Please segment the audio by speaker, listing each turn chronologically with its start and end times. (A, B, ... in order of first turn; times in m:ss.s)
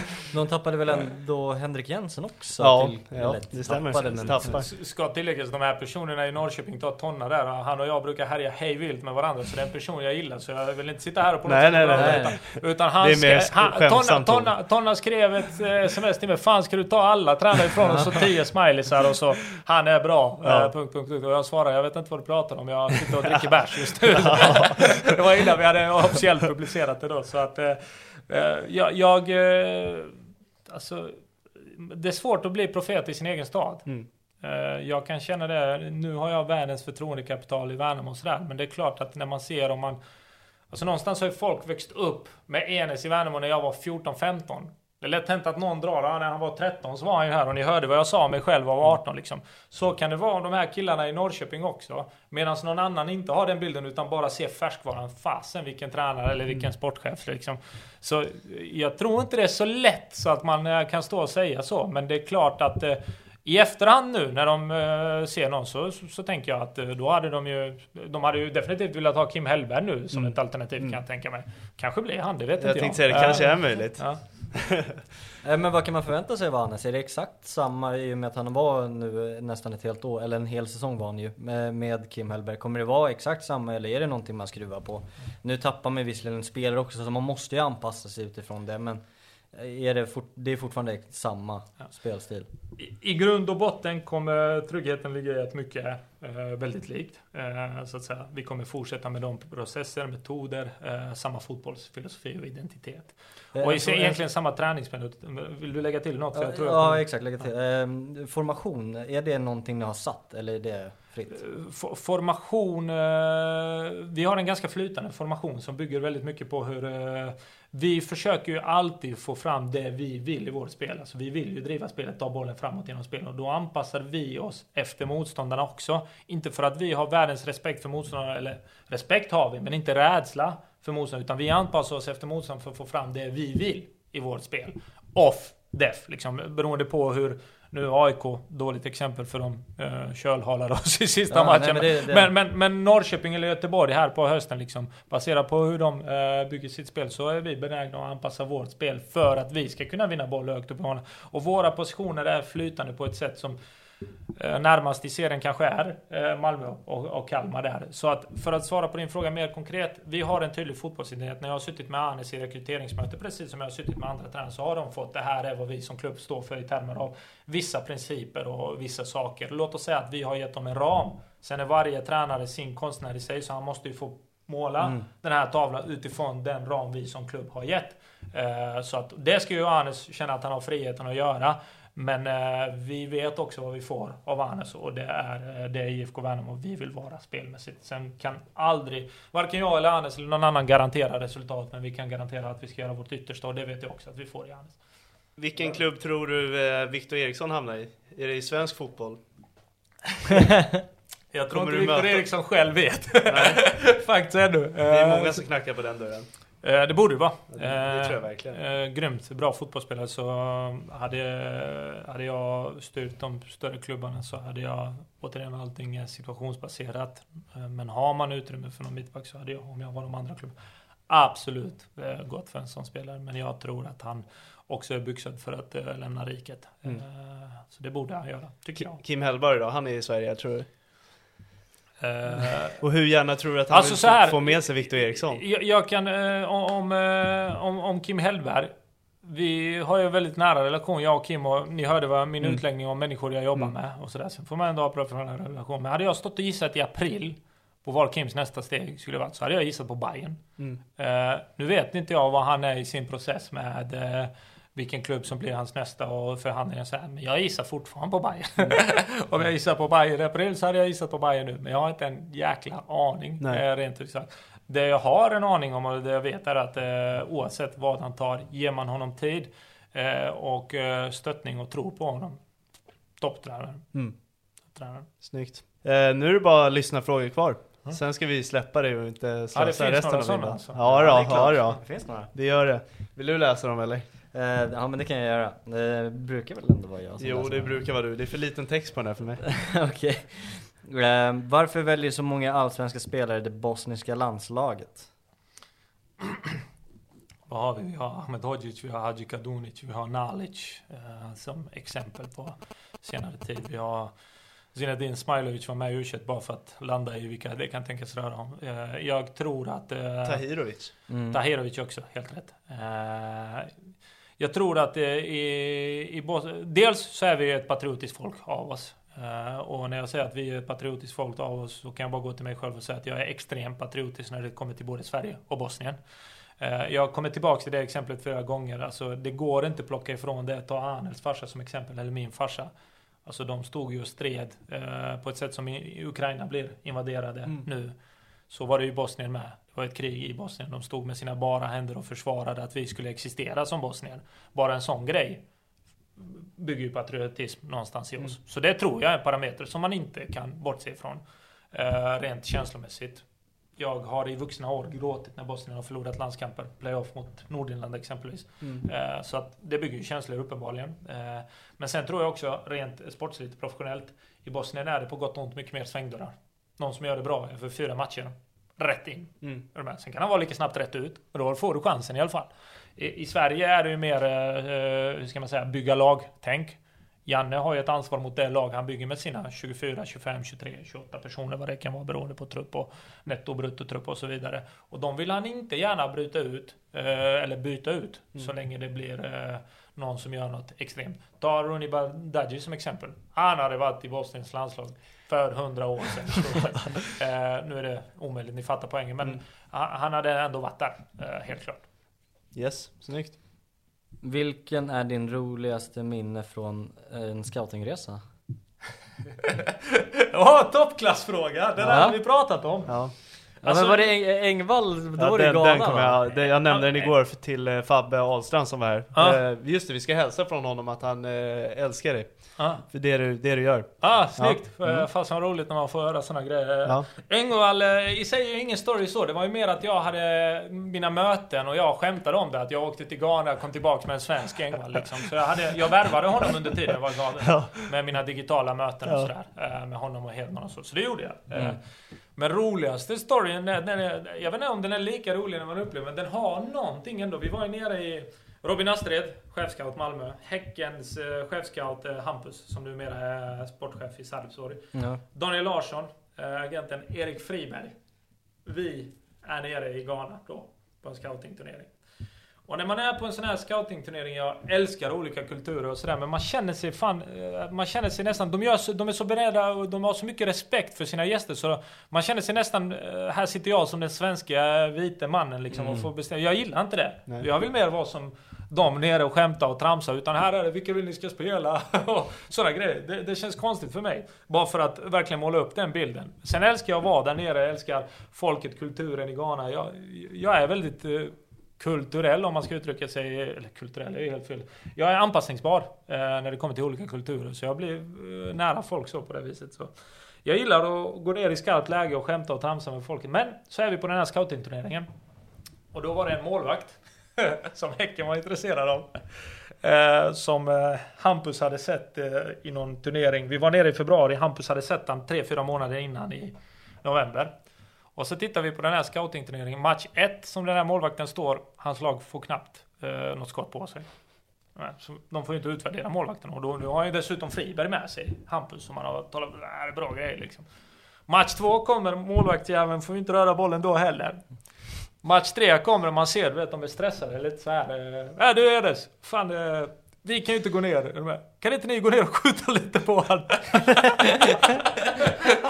0:00.3-0:04.6 A
0:02.6-0:04.6 B
0:04.4-0:33.9 C
0:11.5-0:14.5 B
0:11.9-0:12.4 A
0:17.8-0:18.1 A
0:20.4-0:20.7 B
0:23.9-0:25.0 B
0:34.4-0:40.0 C
0:40.7-1:14.2 C
1:10.1-1:11.0 B
1:12.6-1:14.9 B
1:15.4-1:32.5 A
1:32.8-1:47.1 C
1:43.6-1:44.2 A
1:46.3-1:51.4 A
1:51.3-2:33.6 C
2:21.3-2:22.3 A
2:34.4-3:14.8 C
2:54.8-2:55.1 A
3:15.4-3:19.2 B
3:21.3-3:25.4 C
3:21.5-3:22.2 B
3:23.3-3:23.8 B
3:24.9-3:26.3 B
3:26.6-3:40.6 C
3:27.5-3:28.6 B
3:41.1-3:49.0 C
3:48.8-3:50.7 B
3:52.0-3:52.8 C
3:52.8-3:55.4 B
3:53.7-3:58.7 C
3:59.2-4:10.4 C
4:11.0-4:32.4 C
4:33.2-4:34.0 C
4:34.7-4:35.1 C
4:35.2-4:44.1 B
4:39.6-4:41.1 C
4:40.8-4:42.3 A
4:44.3-4:47.8 A
4:47.2-4:49.4 B
4:49.4-4:55.1 A
4:57.5-5:04.1 C
5:04.7-5:10.4 C
5:10.2-5:10.9 B
5:11.1-5:11.4 A
5:11.3-5:13.7 C
5:14.4-5:26.0 C
5:26.6-5:32.7 C
5:33.3-5:37.9 C
5:38.5-5:45.4 C
5:46.2-5:51.2 C
5:51.7-5:53.2 C
5:53.8-6:41.8 C
6:42.5-6:43.4 B
6:44.2-6:48.2 A
6:50.3-6:53.1 C
6:51.8-6:52.2 A
6:52.9-6:53.1 B
6:53.6-6:54.1 C
6:53.6-6:56.5 A
6:55.2-7:05.1 B
6:56.6-6:57.1 C
7:02.6-7:02.8 C
7:04.0-7:21.8 C
7:17.5-7:17.8 B
7:22.4-7:37.9 C
7:34.9-7:35.2 A
7:38.6-7:41.9 C
7:42.7-8:19.9 C
7:55.7-7:56.1 B
8:20.4-8:25.1 C
8:25.9-8:29.1 C
8:29.8-8:37.5 C
8:38.2-8:44.1 C
8:44.8-8:50.6 C
8:51.3-8:54.5 C
8:55.2-9:04.7 C